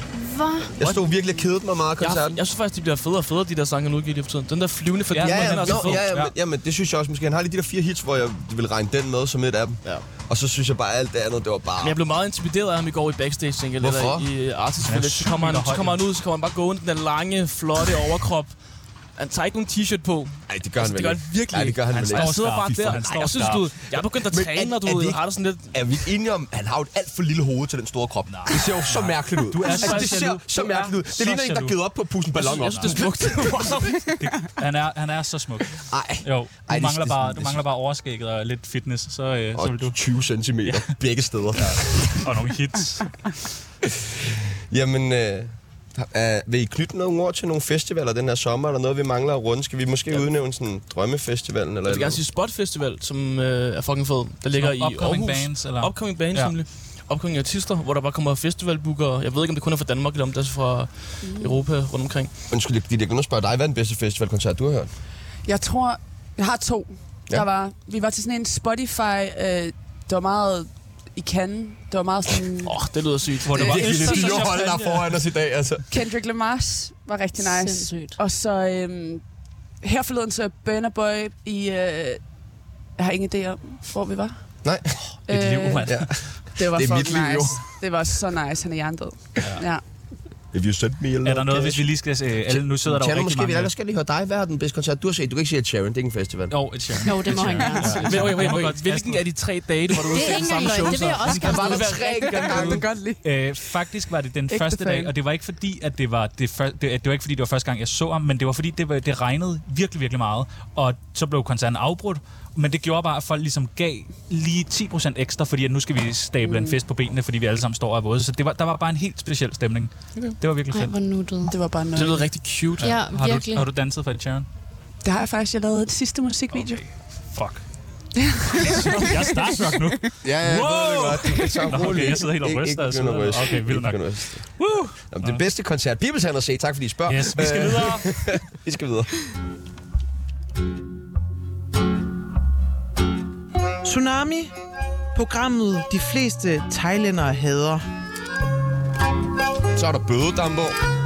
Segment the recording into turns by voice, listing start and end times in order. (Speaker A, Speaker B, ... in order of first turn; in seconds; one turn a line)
Speaker A: 0.1-0.9
Speaker B: 0.8-2.4
Speaker C: 2.0-6.1
Speaker D: 5.1-6.3
Speaker B: 5.2-12.0
Speaker C: 11.8-18.5
Speaker B: 13.8-14.3
Speaker D: 14.8-16.0
Speaker C: 19.2-25.7
Speaker B: 20.5-23.6
Speaker D: 21.9-23.7
Speaker B: 24.2-25.2
Speaker B: 25.7-33.6
Speaker D: 28.3-31.8
Speaker C: 29.6-30.3
Speaker C: 32.4-34.1
Speaker D: 32.4-33.3
Speaker D: 34.1-40.0
Speaker B: 35.9-37.6
Speaker B: 39.5-42.2
Speaker D: 41.5-43.3
Speaker B: 43.8-52.2
Speaker C: 51.9-62.3
Speaker D: 54.5-56.5
Speaker B: 62.5-64.9
Speaker E: 65.5-72.7
Speaker C: 72.6-74.3
Speaker D: 73.4-75.1
Speaker B: 73.6-75.8
Speaker E: 75.9-79.2
Speaker A: 77.4-78.2
Speaker E: 79.8-82.2
Speaker E: 83.0-84.4
Speaker B: 84.6-85.0
Speaker D: 85.3-86.3
Speaker E: 85.3-85.9
Speaker B: 85.8-87.6
Speaker E: 86.5-89.8
Speaker D: 89.4-89.6
Speaker B: 90.5-96.5
Speaker D: 91.2-93.7
Speaker D: 96.5-99.4
Speaker A: 97.0-98.5
Speaker E: 97.6-98.0
Speaker C: 98.0-102.8
Speaker A: 100.1-102.7
Speaker B: 101.5-102.7
Speaker E: 101.5-103.2
Speaker D: 103.2-120.9
Speaker E: 104.5-105.1
Speaker E: 116.4-116.8
Speaker A: 120.7-121.5
Speaker E: 121.5-122.3
Speaker C: 121.9-123.0
Speaker D: 122.8-124.5
Speaker A: 122.8-123.7
Speaker E: 125.0-126.8
Speaker D: 126.5-127.7
Speaker E: 128.2-130.0
Speaker D: 128.6-135.4
Speaker B: 130.2-139.1
Speaker E: 131.2-131.9
Speaker D: 137.1-138.1
Speaker F: 143.8-144.5
Speaker F: 145.1-147.8
Speaker B: 149.7-150.8